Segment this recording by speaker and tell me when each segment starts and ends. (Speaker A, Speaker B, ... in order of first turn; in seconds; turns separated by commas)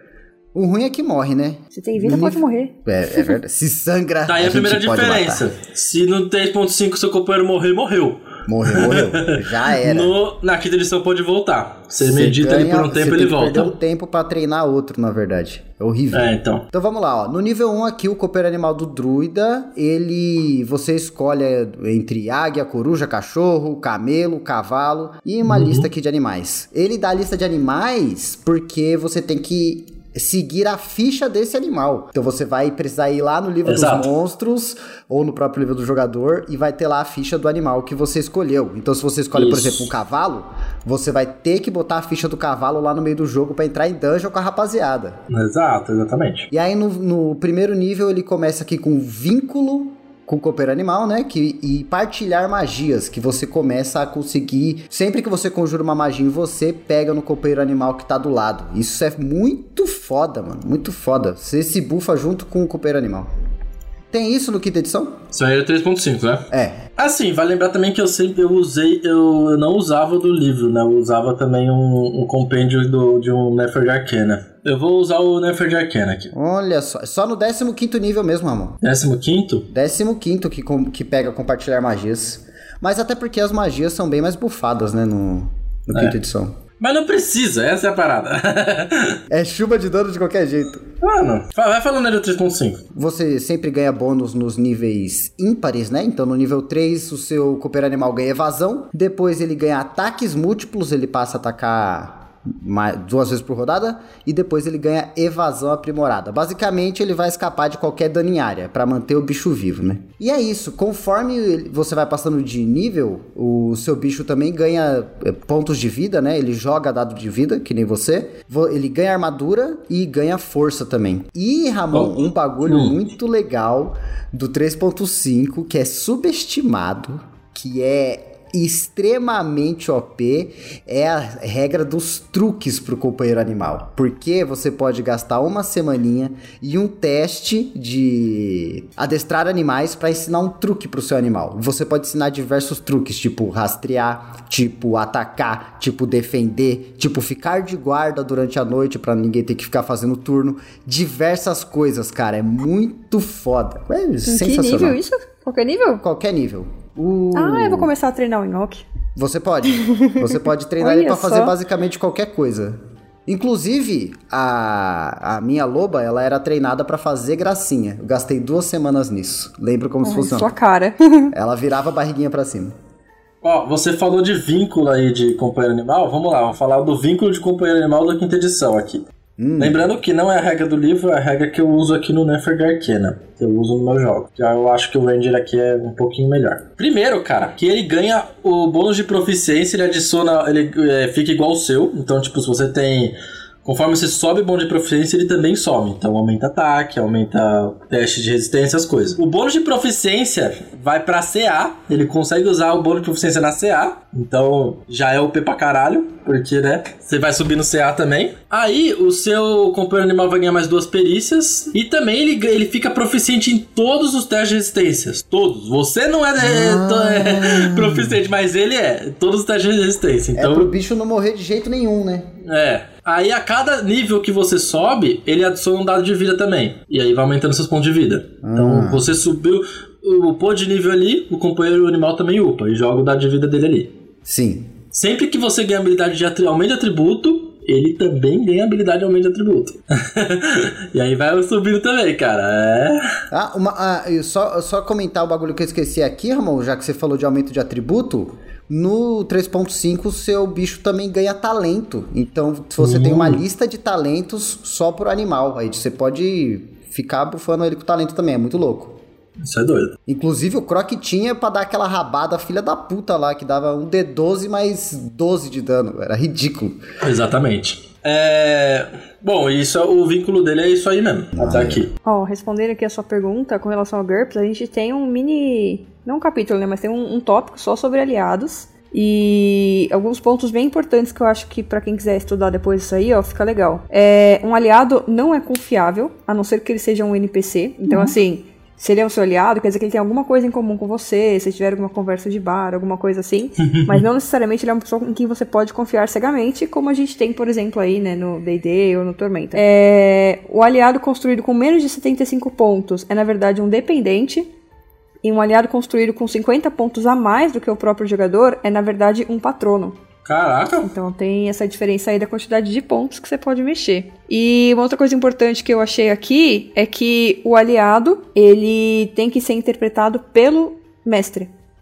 Speaker A: 0.5-5.5, Speaker B: 1.7-3.3, Speaker C: 4.3-13.7, Speaker A: 8.4-10.1, Speaker A: 12.0-45.2, Speaker C: 16.1-16.6, Speaker C: 25.4-25.9, Speaker C: 33.6-34.1, Speaker C: 39.3-39.9, Speaker C: 45.3-46.5, Speaker A: 46.5-63.3, Speaker A: 64.1-65.2, Speaker C: 65.3-76.3, Speaker A: 66.5-66.8, Speaker A: 76.3-78.8, Speaker C: 78.8-79.7, Speaker A: 79.7-86.5, Speaker C: 86.8-89.2, Speaker A: 89.3-90.8, Speaker C: 91.0-92.8, Speaker A: 92.9-155.0, Speaker C: 122.7-123.0, Speaker B: 154.2-156.0, Speaker A: 156.0-157.9, Speaker B: 157.3-158.8, Speaker A: 159.2-170.5, Speaker B: 159.9-160.2, Speaker B: 160.8-161.5, Speaker B: 170.0-171.3, Speaker A: 171.3-172.7, Speaker C: 173.4-179.0, Speaker A: 179.4-179.8, Speaker C: 179.6-220.7, Speaker A: 216.4-218.2, Speaker A: 220.3-222.3, Speaker C: 222.4-233.9, Speaker A: 228.4-229.1, Speaker A: 234.2-234.7, Speaker C: 234.9-243.1, Speaker A: 243.3-259.0, Speaker C: 252.8-253.4, Speaker C: 259.4-259.9, Speaker A: 260.1-266.8, Speaker C: 267.0-271.9, Speaker A: 271.4-271.8, Speaker B: 272.0-304.5, Speaker C: 293.6-294.0, Speaker B: 305.2-309.9, Speaker C: 310.2-310.9, Speaker B: 310.8-321.5